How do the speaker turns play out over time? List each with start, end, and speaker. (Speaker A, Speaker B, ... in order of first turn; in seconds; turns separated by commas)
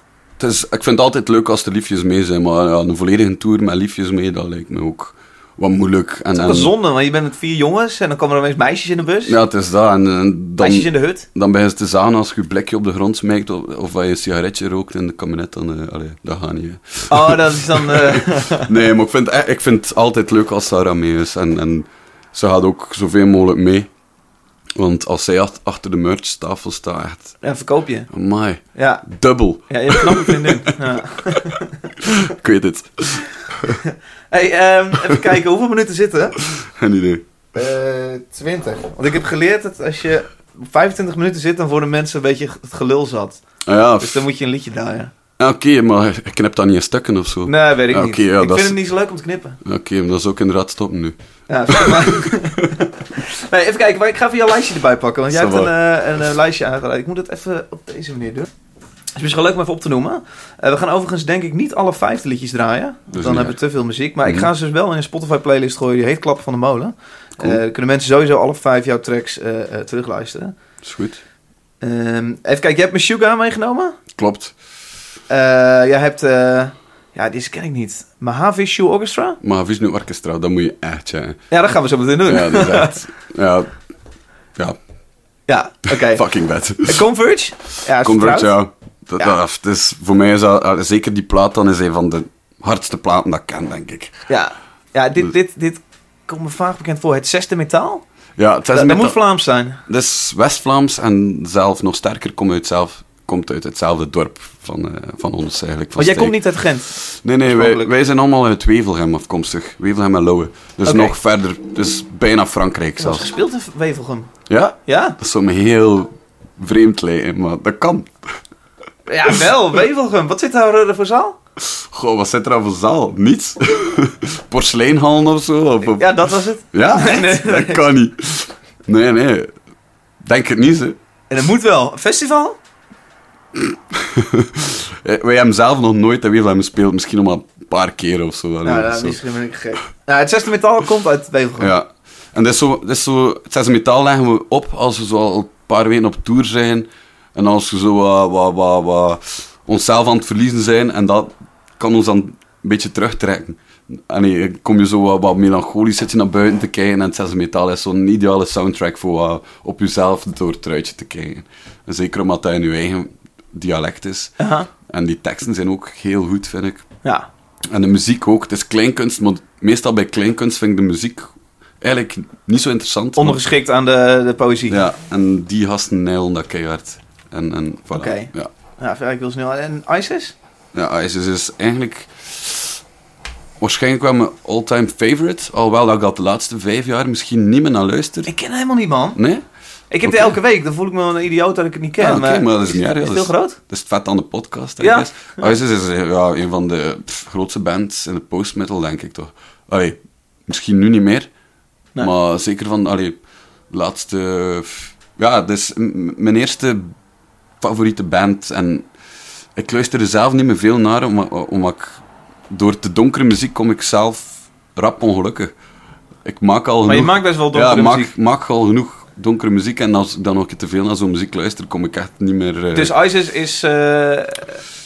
Speaker A: 0.4-6.7, Speaker B: 6.3-9.4, Speaker A: 9.2-23.9, Speaker B: 10.6-11.3, Speaker B: 17.1-18.8, Speaker A: 24.8-27.4, Speaker B: 27.4-28.1, Speaker A: 28.1-30.8, Speaker B: 28.8-29.0, Speaker B: 29.7-31.9, Speaker A: 31.5-33.8, Speaker B: 33.8-36.4, Speaker A: 36.5-37.3, Speaker B: 37.5-43.4, Speaker A: 43.6-44.2, Speaker B: 44.0-45.1, Speaker A: 45.4-48.8, Speaker B: 47.5-49.6, Speaker A: 49.6-51.2, Speaker B: 51.5-58.5, Speaker A: 51.7-52.7, Speaker A: 55.3-55.7, Speaker B: 59.2-70.5, Speaker A: 63.1-63.6, Speaker A: 64.2-64.5, Speaker A: 70.8-71.2, Speaker B: 71.8-74.0, Speaker A: 74.2-74.5, Speaker B: 75.3-79.4, Speaker A: 79.4-81.4, Speaker B: 81.5-83.0, Speaker A: 82.3-83.7, Speaker B: 85.5-86.2, Speaker A: 86.0-87.0, Speaker B: 86.8-88.5, Speaker A: 88.0-94.2, Speaker B: 94.3-98.0, Speaker A: 98.4-99.2, Speaker B: 98.7-99.8, Speaker A: 99.9-113.3, Speaker B: 106.0-106.9, Speaker B: 107.5-107.9, Speaker B: 110.8-111.2, Speaker B: 113.0-114.3, Speaker A: 114.5-118.3, Speaker B: 114.9-115.2, Speaker B: 119.1-121.4, Speaker A: 121.6-129.5, Speaker B: 125.8-127.8, Speaker A: 130.2-131.0, Speaker B: 131.3-132.6, Speaker A: 133.6-139.2, Speaker B: 138.6-141.7, Speaker A: 141.6-166.8, Speaker B: 164.4-164.7, Speaker A: 167.7-173.4, Speaker B: 173.2-174.8, Speaker A: 174.7-178.5, Speaker B: 177.9-180.3, Speaker A: 180.7-182.8, Speaker A: 183.6-188.3, Speaker B: 188.3-189.2, Speaker A: 189.2-189.4, Speaker B: 189.9-193.6, Speaker A: 190.0-190.4, Speaker A: 192.0-201.3, Speaker B: 194.8-195.6, Speaker A: 202.0-203.2, Speaker A: 203.7-206.9, Speaker A: 207.6-208.9, Speaker A: 209.6-215.5, Speaker A: 216.2-222.9, Speaker B: 216.9-218.1, Speaker B: 222.7-224.6